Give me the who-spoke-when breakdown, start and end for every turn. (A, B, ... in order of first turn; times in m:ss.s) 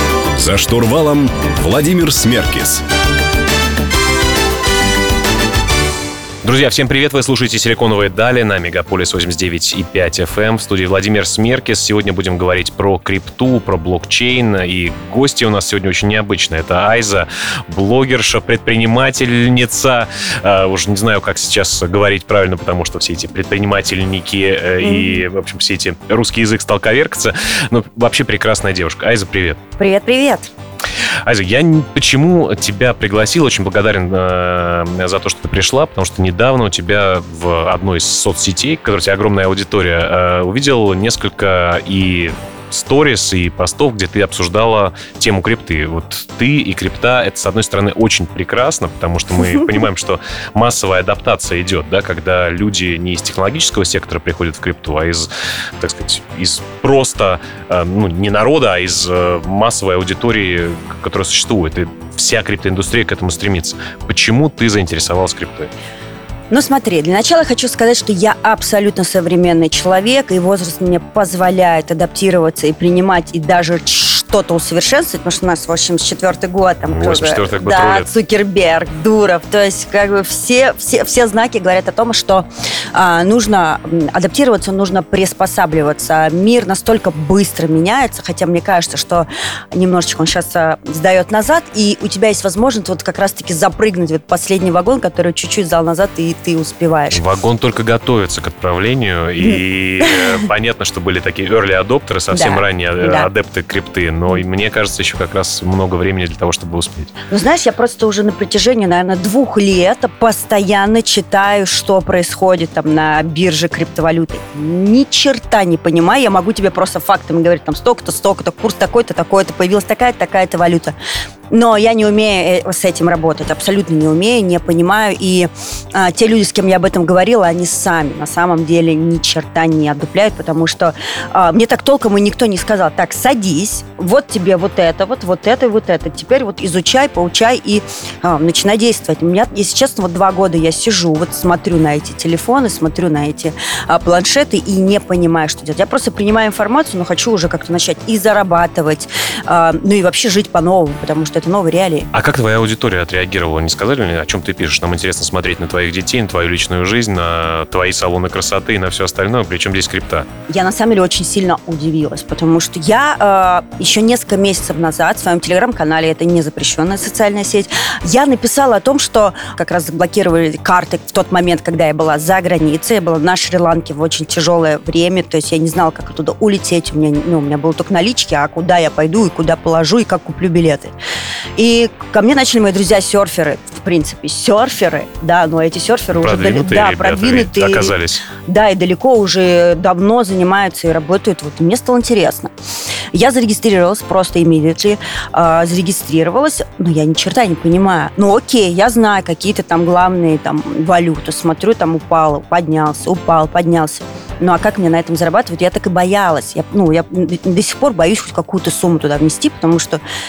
0:00.4-0:02.8 A
0:06.4-0:29.6 B
0:24.8-0:25.2 C
0:29.8-0:30.5 C
0:31.2-1:05.7 B
1:06.5-1:37.2 C
1:16.8-1:18.1 B
1:37.1-1:47.1 B
1:39.4-1:40.4 C
1:42.3-1:43.3 C
1:47.3-2:01.0 C
2:01.5-2:32.1 C
2:32.1-2:40.3 B
2:40.5-3:00.9 C
3:01.6-3:08.0 C
3:06.1-3:08.2 B
3:08.5-3:12.5 C
3:13.1-3:30.0 C